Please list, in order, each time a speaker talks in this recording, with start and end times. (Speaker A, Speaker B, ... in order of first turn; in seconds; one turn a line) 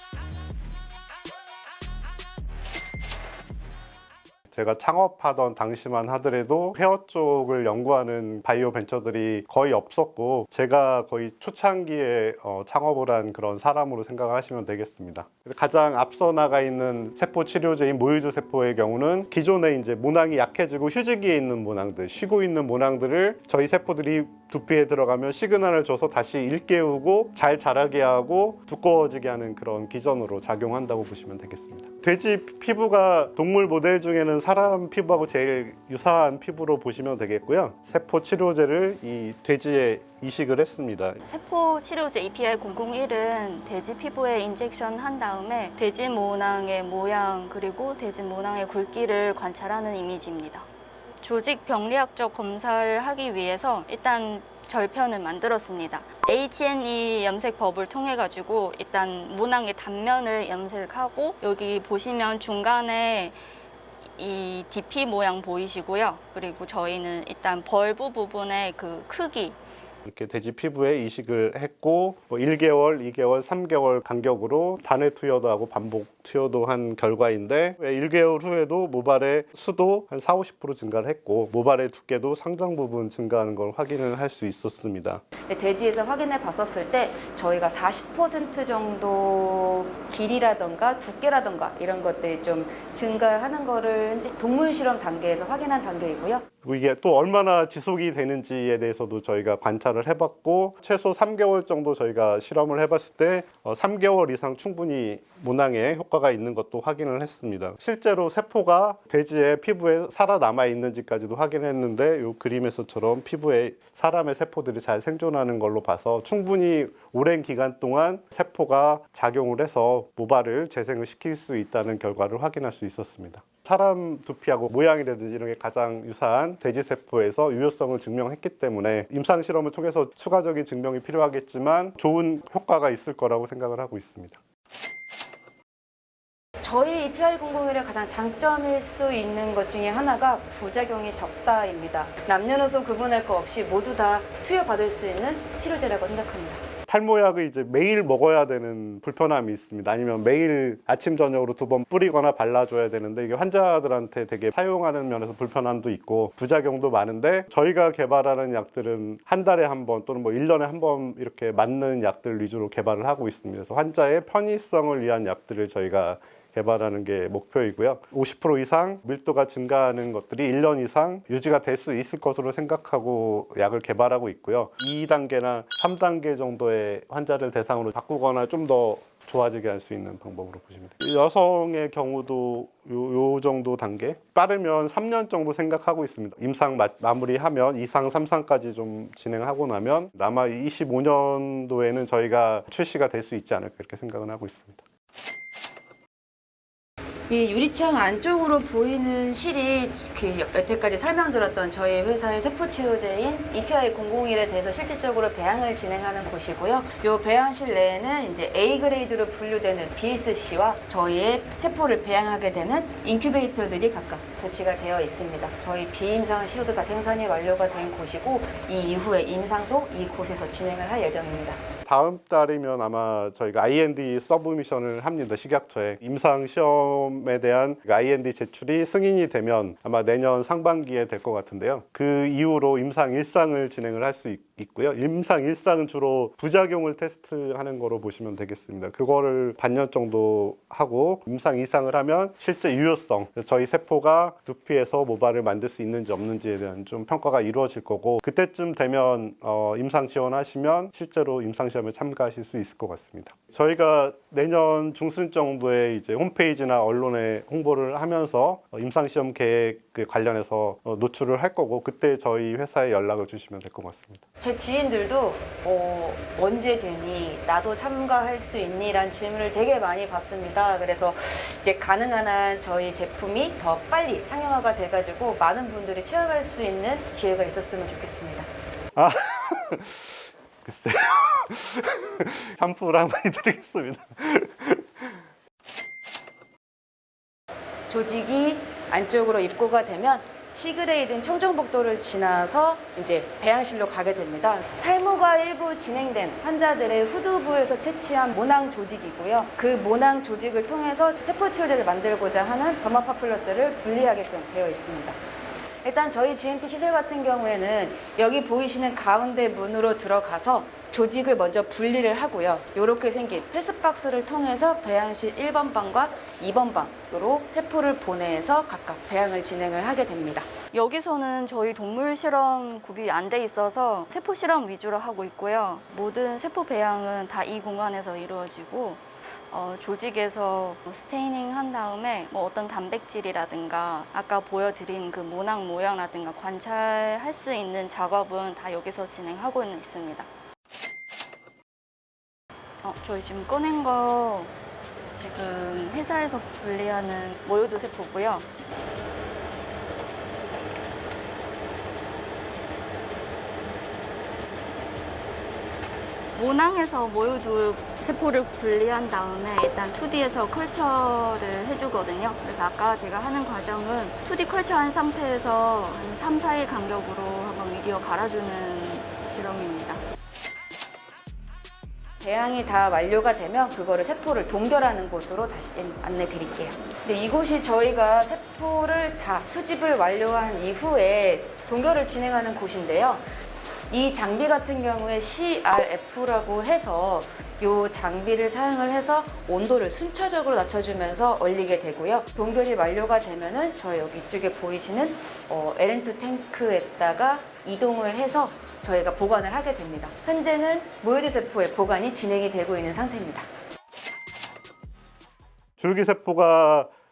Speaker A: 4.5-41.2
Speaker B: 41.2-50.7
Speaker B: 51.2-63.4
Speaker B: 64.2-69.6
Speaker A: 70.0-85.2
Speaker C: 85.5-96.4
Speaker A: 96.6-134.4
Speaker C: 136.6-146.6
Speaker A: 146.9-194.8
Speaker C: 197.3-221.6
Speaker A: 221.8-264.2
Speaker C: 264.4-278.5
Speaker A: 278.9-285.1
Speaker C: 287.9-305.2
Speaker C: 305.8-320.5
Speaker B: 320.7-340.3
Speaker B: 342.8-344.5
Speaker B: 345.0-348.5
Speaker B: 356.3-370.0
Speaker C: 372.2-383.2
Speaker C: 383.9-403.5
Speaker A: 405.8-406.9